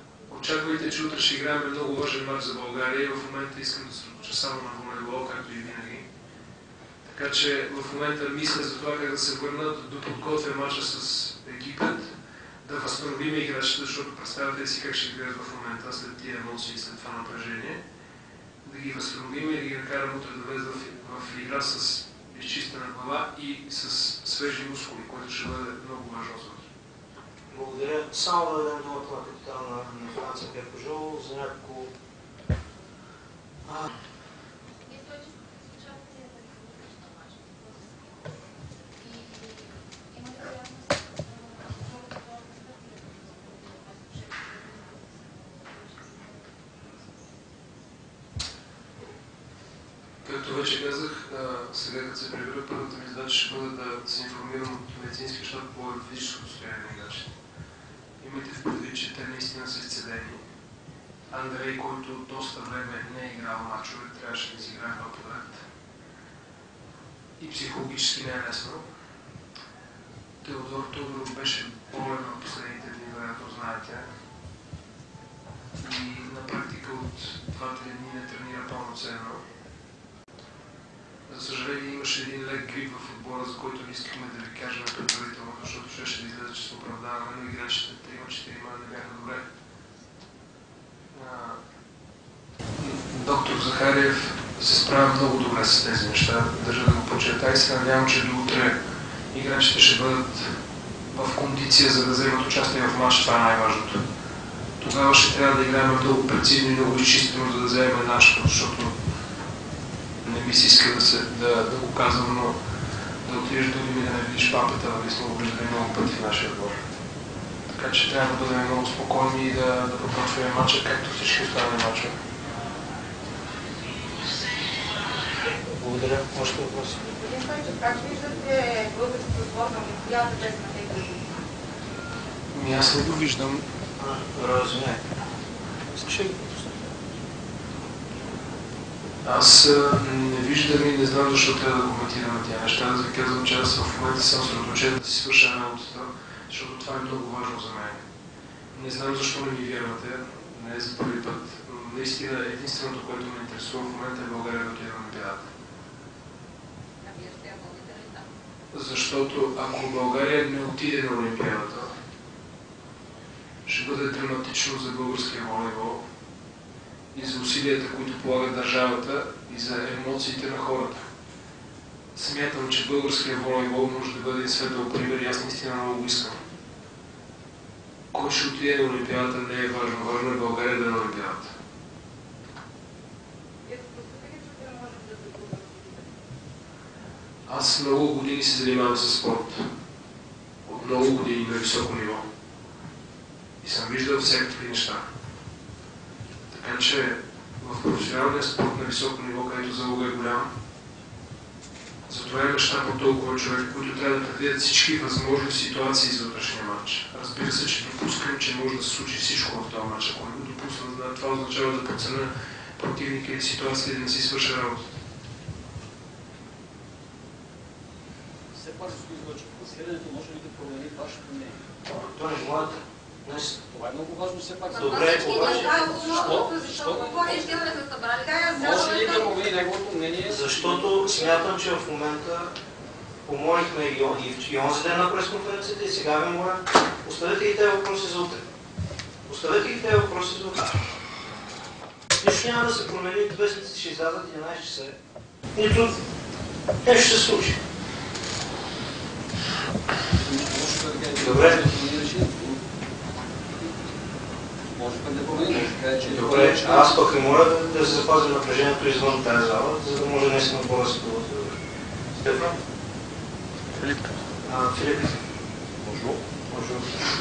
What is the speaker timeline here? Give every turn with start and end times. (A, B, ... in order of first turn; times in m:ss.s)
0:00.3-0:06.1 A
0:07.0-0:12.1 A
0:12.6-0:17.8 A
0:18.6-0:26.7 A
0:27.5-0:31.9 B
0:33.6-0:33.9 B
0:34.9-0:37.7 C
0:39.0-0:44.9 C
0:45.7-0:46.2 C
0:50.2-0:57.3 A
0:58.2-1:00.4 A
1:01.3-1:05.6 A
1:07.4-1:08.8 A
1:10.4-1:14.1 A
1:15.8-1:19.4 A
1:21.3-1:29.4 A
1:31.1-1:31.6 A
1:32.8-1:38.8 A
1:39.3-1:40.6 A
1:41.1-1:44.0 A
1:44.8-1:49.0 A
1:50.2-1:52.6 A
1:53.2-1:56.8 A
1:57.7-2:02.2 A
2:05.8-2:07.1 B
2:07.1-2:11.3 C
2:12.5-2:13.6 A
2:14.0-2:15.0 B
2:16.0-2:16.5 A
2:19.2-2:28.0 A
2:28.7-2:35.5 A
2:37.0-2:38.2 C
2:38.7-2:41.9 A
2:43.6-2:46.0 A
2:47.1-2:51.0 A
2:52.1-2:56.4 A
2:58.1-3:01.5 A
3:03.6-3:06.1 C
3:07.5-3:09.7 A
3:10.6-3:12.2 A
3:13.6-3:15.0 A
3:16.5-3:20.5 A
3:22.1-3:34.9 A
3:38.5-3:41.6 D
3:41.9-3:43.6 B
3:43.7-3:47.7 D
3:44.7-3:49.4 C
3:44.7-3:46.2 B
3:48.5-3:51.4 D
3:50.2-3:52.5 B
3:53.2-3:58.4 B
3:59.3-4:00.8 B
4:02.2-4:05.0 B
4:05.5-4:06.0 B
4:06.8-4:07.6 B
4:10.1-4:12.6 D
4:11.2-4:11.6 B
4:14.7-4:17.0 D
4:16.0-4:21.6 B
4:22.2-4:22.6 B
4:24.4-4:25.2 B
4:25.8-4:27.0 B